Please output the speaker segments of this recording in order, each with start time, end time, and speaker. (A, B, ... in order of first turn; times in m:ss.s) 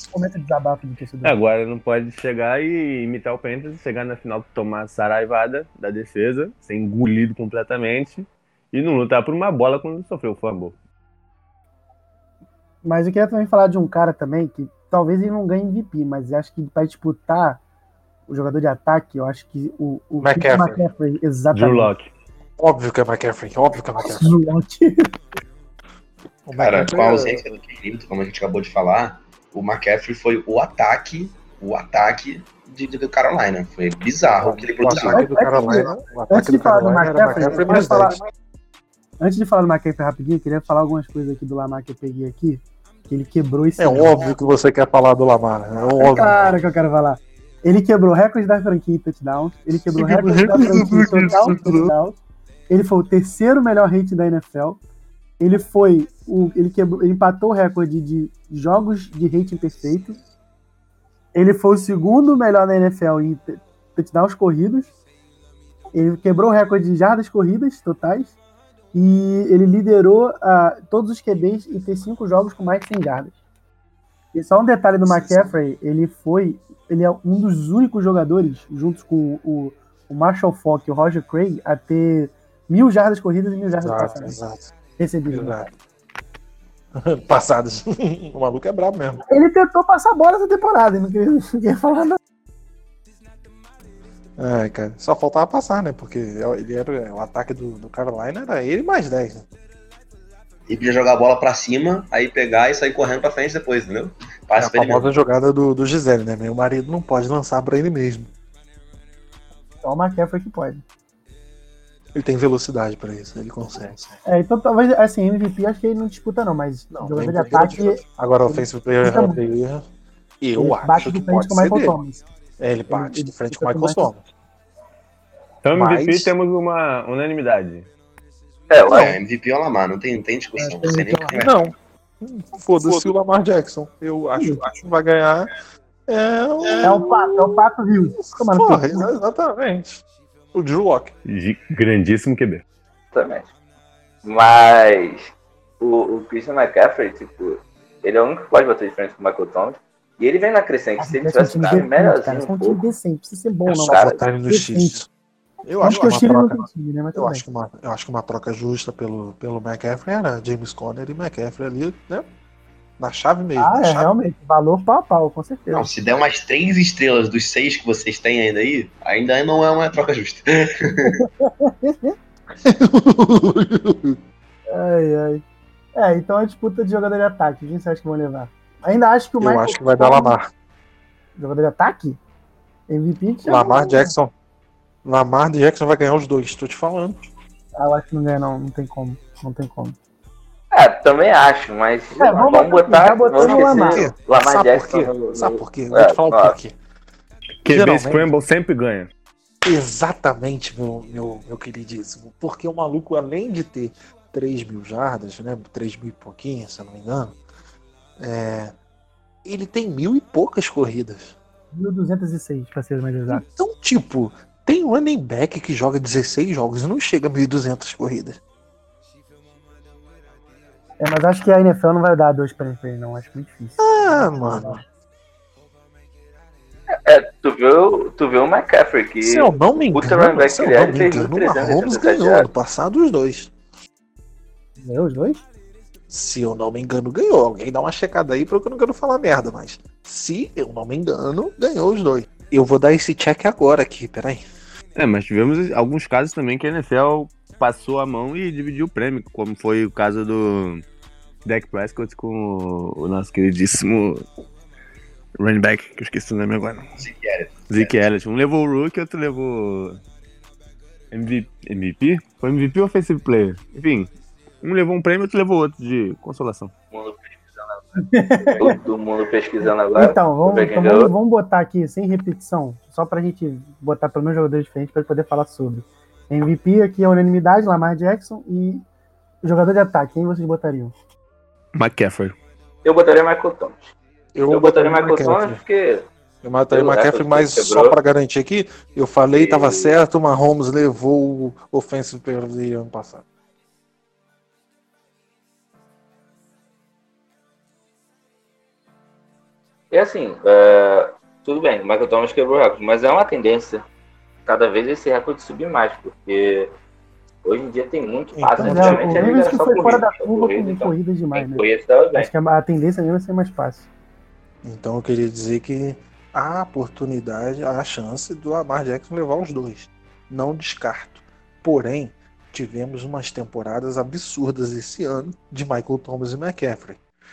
0:00.1-0:01.4 A
0:01.2-0:10.8 B
0:12.8-0:17.6 A
0:18.3-0:21.9 A
0:20.2-0:20.8 C
0:21.5-0:22.1 B
0:22.6-0:24.3 C
0:24.0-0:25.1 A
0:26.4-0:27.4 C
0:26.6-0:35.3 D
0:34.3-0:38.3 C
0:34.9-0:38.2 A
0:39.2-0:44.3 A
0:43.8-0:46.6 C
0:46.0-0:54.8 A
0:50.0-0:51.9 C
0:55.4-1:00.2 A
1:01.3-1:04.9 A
1:05.9-1:08.3 A
1:08.9-1:13.3 A
1:14.3-1:24.4 A
1:15.0-1:15.5 C
1:23.8-1:24.6 C
1:25.0-1:25.7 A
1:25.3-1:25.7 C
1:26.9-1:29.2 C
1:29.3-1:32.2 A
1:34.4-1:39.4 C
1:40.7-1:45.1 D
1:44.6-1:48.3 C
1:49.8-1:50.8 A
1:52.1-1:54.2 C
1:54.2-1:59.4 A
1:56.9-1:59.8 C
2:00.4-2:02.0 C
2:00.6-2:02.2 A
2:02.6-2:04.3 C
2:02.9-2:04.1 A
2:05.6-2:07.9 B
2:05.7-2:06.3 C
2:08.7-2:09.2 E
2:08.9-2:11.6 D
2:10.6-2:11.4 A
2:11.4-2:15.5 C
2:16.1-2:17.6 C
2:16.8-2:19.0 A
2:18.2-2:21.1 C
2:21.3-2:22.6 B
2:23.1-2:23.5 E
2:24.2-2:32.8 E
2:31.0-2:35.0 A
2:33.7-2:35.1 C
2:33.9-2:34.2 E
2:35.6-2:42.3 C
2:35.8-2:37.4 A
2:43.0-2:44.1 C
2:43.6-2:45.9 A
2:45.7-2:51.2 D
2:51.0-2:52.1 A
2:52.6-2:54.2 C
2:54.7-2:55.4 A
2:55.9-3:00.4 A
2:59.4-3:00.5 C
3:01.4-3:02.2 A
3:02.9-3:04.1 A
3:03.4-3:04.3 C
3:05.0-3:07.2 C
3:07.8-3:10.0 A
3:10.7-3:16.6 E
3:12.1-3:12.4 C
3:12.2-3:14.1 A
3:13.4-3:16.7 C
3:17.6-3:19.1 B
3:17.6-3:18.3 C
3:19.6-3:27.4 C
3:28.2-3:28.7 C
3:29.4-3:31.4 C
3:31.7-3:33.4 A
3:33.3-3:38.4 C
3:41.0-3:44.8 A
3:43.8-3:44.8 C
3:46.9-3:52.5 E
3:49.2-3:53.5 C
3:54.8-3:55.4 A
3:56.1-4:04.4 C
4:05.0-4:10.8 B
4:11.4-4:14.2 B
4:15.4-4:16.9 B
4:17.0-4:18.0 D
4:17.7-4:20.0 B
4:21.1-4:24.1 B
4:24.6-4:26.7 B
4:26.9-4:27.8 E
4:28.0-4:28.8 A
4:28.6-4:31.1 E
4:29.6-4:38.8 A
4:39.4-4:40.9 A
4:41.8-4:42.3 B
4:42.8-4:43.9 E
4:44.3-4:45.6 C
4:44.5-4:46.1 E
4:46.4-4:53.2 C
4:46.7-4:48.0 E
4:49.3-4:50.0 E
4:59.9-5:03.8 E
5:04.4-5:06.7 E
5:07.4-5:12.3 E
5:08.4-5:10.0 C
5:08.6-5:13.8 A
5:14.6-5:27.0 C